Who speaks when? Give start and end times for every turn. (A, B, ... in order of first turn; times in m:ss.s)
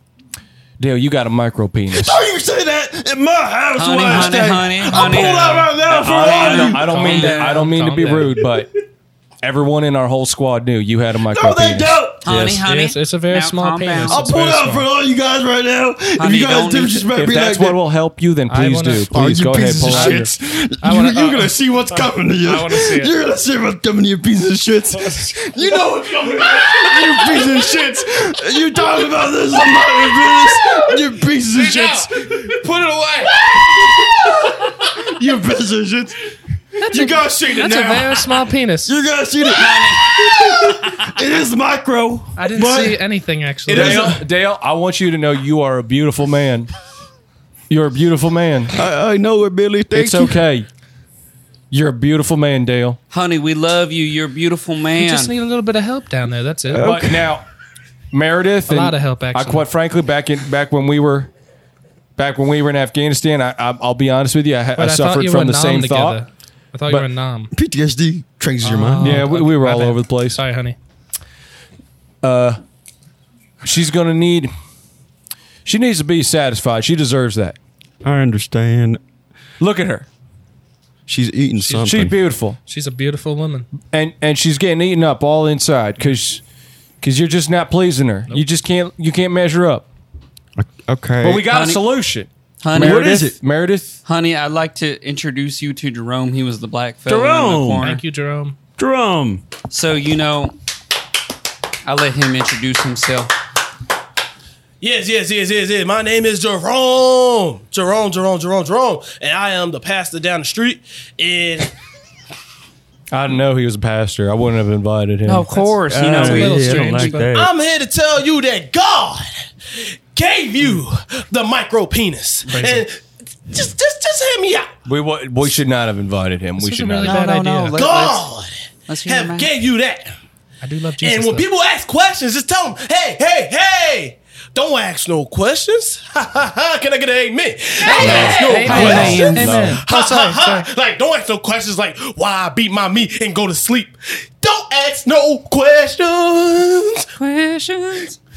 0:00.8-0:02.2 A
0:01.9-0:06.8 B
0:03.7-0:07.7 C
0:05.8-0:08.7 A
0:06.8-0:08.4 D
0:09.4-0:12.6 A
0:11.3-0:12.2 B
0:12.2-0:14.3 C
0:12.6-0:14.9 D
0:14.0-0:17.8 B
0:16.1-0:17.1 C
0:17.1-0:20.3 A
0:18.5-0:19.1 D
0:19.1-0:32.6 B
0:19.8-0:23.1 D
0:25.0-0:25.4 D
0:31.5-0:33.3 D
0:33.2-0:36.1 B
0:36.8-0:38.9 D
0:36.9-0:38.2 B
0:38.8-0:43.0 B
0:39.4-0:41.2 C
0:42.4-0:44.2 D
0:43.6-0:44.2 B
0:43.7-0:46.7 A
0:47.7-0:48.8 A
0:48.7-0:50.4 B
0:49.9-0:50.7 A
0:51.7-0:53.0 A
0:53.1-0:55.3 C
0:55.0-0:56.9 D
0:56.7-0:57.4 B
0:56.8-0:57.4 A
0:58.1-1:01.3 A
0:58.7-0:59.6 D
1:02.2-1:06.2 A
1:04.8-1:07.5 D
1:07.5-1:09.2 B
1:08.6-1:10.8 D
1:09.0-1:10.4 A
1:12.2-1:12.6 A
1:13.6-1:14.5 A
1:15.6-1:17.6 A
1:18.0-1:19.0 B
1:19.6-1:20.1 A
1:21.1-1:22.1 B
1:21.6-1:21.8 D
1:21.8-1:22.6 A
1:22.7-1:23.7 D
1:23.9-1:26.4 A
1:27.0-1:29.8 A
1:30.6-1:31.5 B
1:31.2-1:34.0 A
1:31.4-1:31.8 C
1:32.6-1:33.2 C
1:32.7-1:33.4 B
1:34.0-1:38.0 C
1:37.1-1:37.8 B
1:37.8-1:38.6 D
1:38.8-1:39.4 B
1:39.7-1:40.5 C
1:41.8-1:43.3 C
1:44.8-1:51.7 E
1:53.1-1:55.7 A
1:55.2-1:57.2 C
1:55.9-1:57.5 B
1:56.0-1:57.3 D
1:57.3-1:59.3 E
2:00.1-2:04.7 E
2:02.5-2:02.8 D
2:04.8-2:07.2 A
2:06.6-2:07.8 D
2:07.0-2:08.3 C
2:07.8-2:10.1 E
2:08.9-2:09.5 C
2:10.6-2:11.4 D
2:11.0-2:27.1 E
2:17.8-2:19.6 C
2:18.0-2:20.7 D
2:18.0-2:19.5 B
2:18.9-2:19.6 A
2:27.2-2:28.2 C